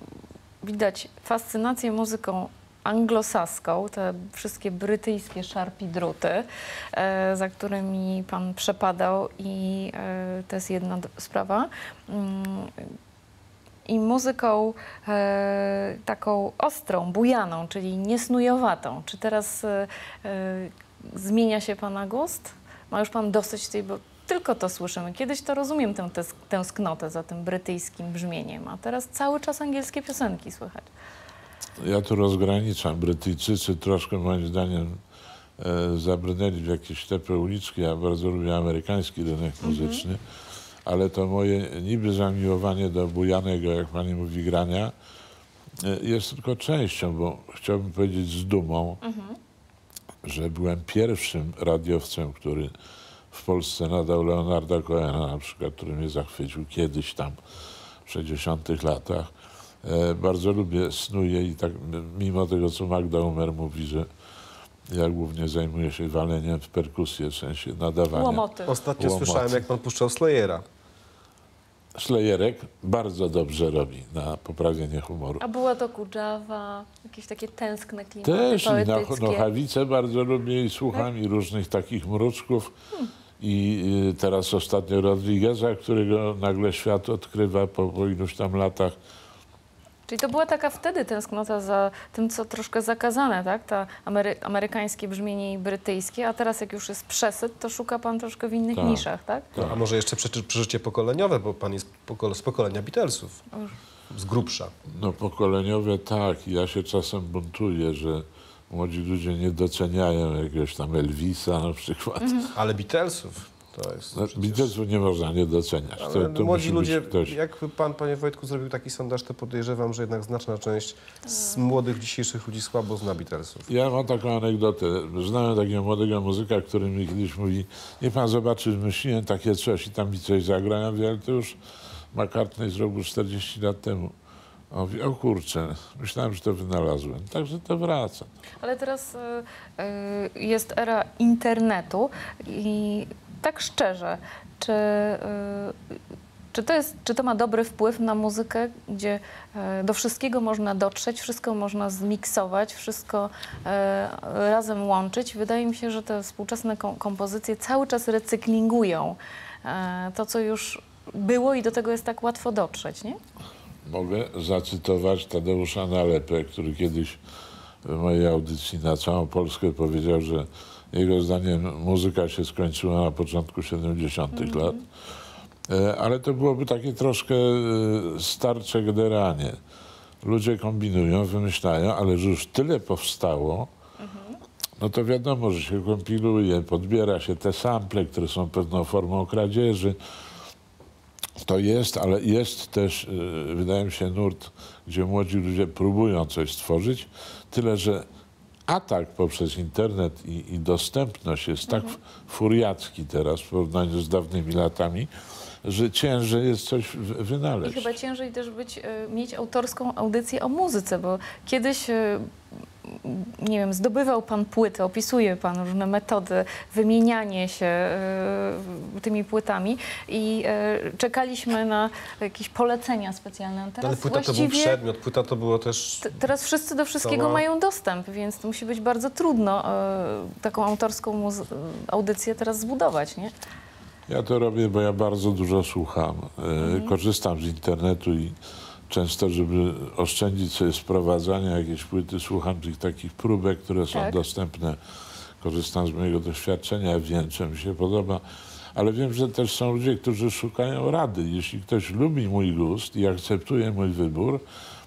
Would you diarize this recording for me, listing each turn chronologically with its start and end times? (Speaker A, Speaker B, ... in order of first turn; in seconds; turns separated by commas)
Speaker A: 0.6-12.8, Speaker A: 13.9-30.9, Speaker B: 31.8-35.0, Speaker B: 35.6-40.2, Speaker A: 39.6-40.0, Speaker B: 40.9-44.9, Speaker B: 45.8-49.0, Speaker A: 49.0-49.4, Speaker B: 50.2-52.7, Speaker B: 53.3-57.4, Speaker B: 58.0-59.3, Speaker B: 59.8-64.0, Speaker B: 64.9-68.4, Speaker A: 68.1-68.8, Speaker C: 68.7-70.6, Speaker B: 69.0-69.6, Speaker B: 71.9-75.4, Speaker A: 75.4-79.5, Speaker B: 78.2-82.7, Speaker B: 83.4-88.9, Speaker A: 90.1-99.5, Speaker B: 98.7-99.8, Speaker C: 99.6-103.4, Speaker C: 104.1-104.7, Speaker B: 104.9-112.4, Speaker A: 112.2-112.5, Speaker C: 112.5-114.7, Speaker B: 114.1-117.3, Speaker C: 116.0-123.7, Speaker B: 123.7-131.6, Speaker B: 132.1-134.1, Speaker B: 134.7-138.3, Speaker A: 138.6-145.8, Speaker A: 146.5-163.2, Speaker B: 163.8-167.2, Speaker B: 167.8-174.8, Speaker A: 174.3-174.8, Speaker B: 175.7-179.6, Speaker B: 180.2-183.7, Speaker A: 184.0-184.4, Speaker B: 184.8-190.0, Speaker B: 191.4-198.0, Speaker B: 198.7-205.1, Speaker A: 201.7-202.0, Speaker B: 205.6-207.9, Speaker A: 207.6-212.2, Speaker A: 212.8-224.8, Speaker C: 223.8-226.2, Speaker A: 226.0-233.3, Speaker C: 227.0-227.4, Speaker B: 234.1-238.3, Speaker A: 236.6-236.9, Speaker B: 238.9-244.8, Speaker A: 243.9-244.2, Speaker B: 245.4-248.2, Speaker B: 248.7-254.4